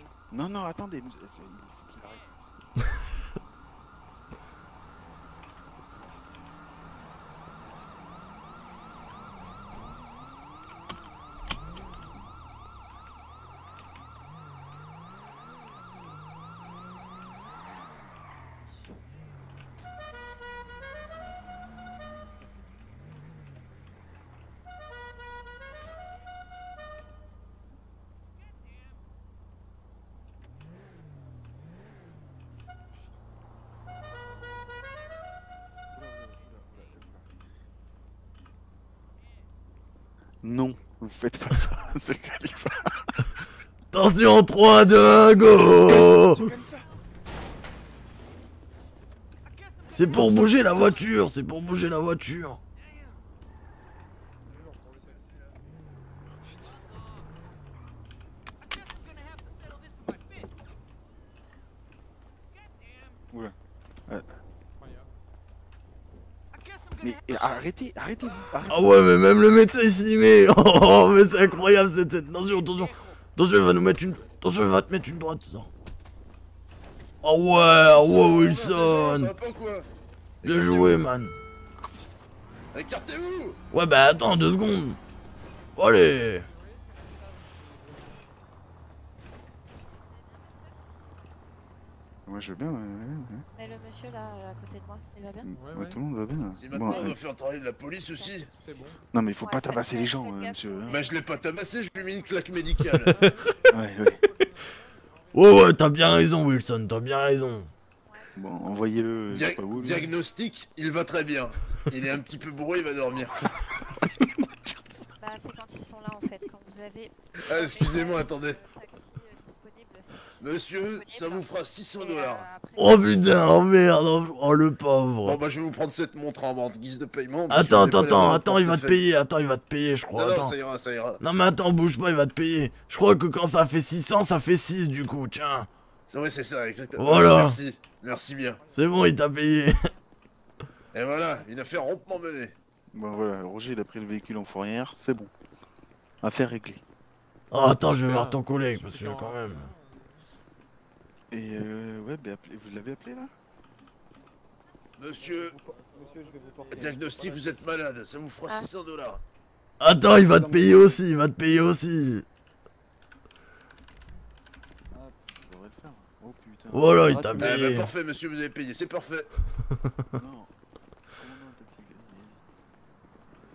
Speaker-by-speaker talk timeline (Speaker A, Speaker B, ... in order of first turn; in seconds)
Speaker A: 0.3-2.3, 36.0-37.1, 40.4-43.2, 45.5-46.9, 56.5-56.8, 64.1-64.4, 67.0-68.9, 81.8-82.1, 92.2-93.4, 95.4-97.2, 99.1-101.0, 103.7-104.2, 108.3-110.1, 114.6-115.0, 142.9-145.3, 146.2-146.8, 151.3-153.3, 165.3-167.1, 170.1-170.5, 171.2-172.4
Speaker B: 43.9-46.5, 49.9-52.6, 68.7-75.7, 77.2-79.3, 80.4-81.3, 83.7-85.0, 85.8-86.5, 105.3-107.7, 122.8-125.4, 127.5-130.6, 131.2-135.7, 136.9-137.6, 138.7-139.8, 147.5-149.7, 159.8-162.2, 166.7-167.9
Speaker C: 54.6-55.1, 64.8-65.1, 87.2-88.2, 95.5-96.0, 98.5-99.0, 103.1-104.8, 148.0-150.2, 155.2-157.6, 160.2-161.0, 167.1-167.5
Speaker D: 54.8-55.5, 77.9-79.9, 80.4-81.0, 82.7-83.6, 96.6-98.5, 100.9-103.2, 109.3-113.5, 117.5-118.6, 120.4-122.5, 125.2-129.0, 130.1-131.2, 136.1-138.6, 140.9-142.5, 155.0-155.6, 156.7-159.2, 167.4-169.3
Speaker E: 89.9-90.8, 93.5-95.6, 96.8-97.2, 98.0-98.5, 99.4-101.2, 108.0-108.3, 115.2-123.5